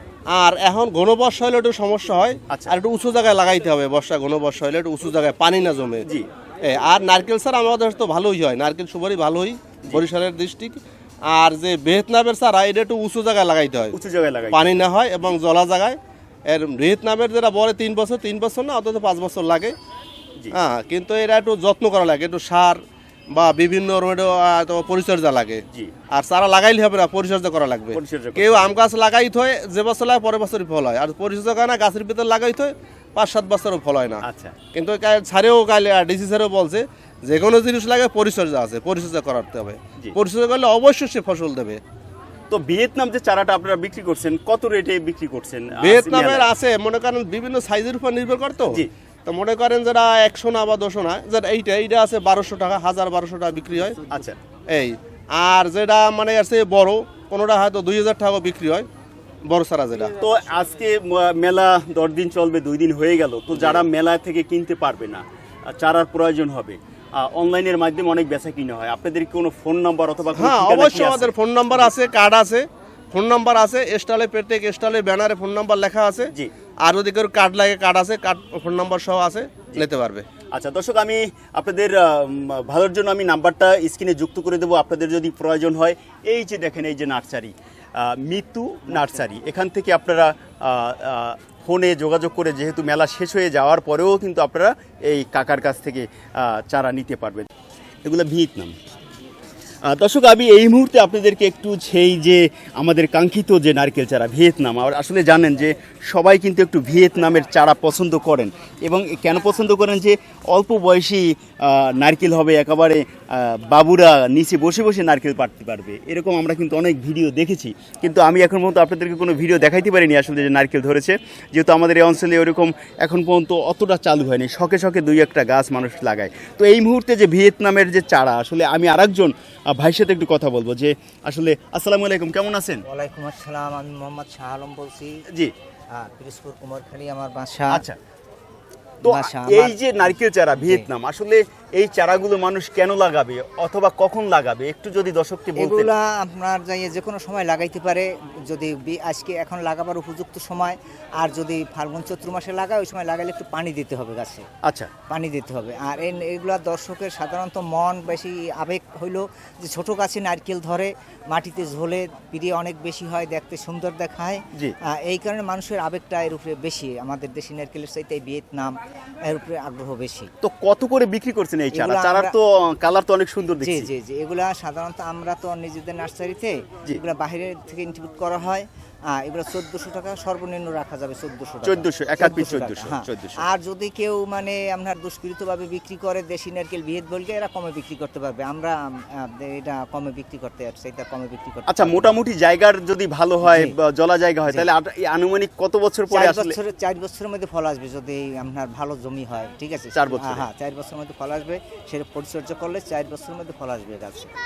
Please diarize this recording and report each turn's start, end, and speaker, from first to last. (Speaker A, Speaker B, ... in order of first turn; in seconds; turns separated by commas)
Speaker A: 0.3-6.0, Speaker B: 2.5-2.8, Speaker A: 6.6-13.9, Speaker B: 13.9-14.8, Speaker A: 14.5-19.8, Speaker A: 20.5-22.8, Speaker A: 23.3-41.8, Speaker B: 27.9-28.7, Speaker B: 34.2-34.5, Speaker B: 42.5-46.5, Speaker A: 45.8-54.0, Speaker B: 54.1-54.4, Speaker A: 54.7-58.9, Speaker A: 59.5-60.2, Speaker B: 60.2-71.9, Speaker A: 63.6-63.9, Speaker A: 70.4-76.3, Speaker A: 76.8-80.3, Speaker B: 80.5-97.5, Speaker B: 98.0-98.8, Speaker B: 99.9-132.8, Speaker C: 132.9-135.2, Speaker C: 136.0-137.9, Speaker B: 137.7-138.0, Speaker B: 139.0-145.9, Speaker C: 139.0-140.9, Speaker C: 145.6-154.5, Speaker B: 154.7-154.9, Speaker C: 155.1-170.3, Speaker B: 170.4-173.9, Speaker C: 171.7-172.3, Speaker C: 173.6-192.2, Speaker B: 181.7-183.4, Speaker B: 191.7-196.6, Speaker C: 193.4-193.8, Speaker C: 196.1-204.3, Speaker B: 199.9-200.4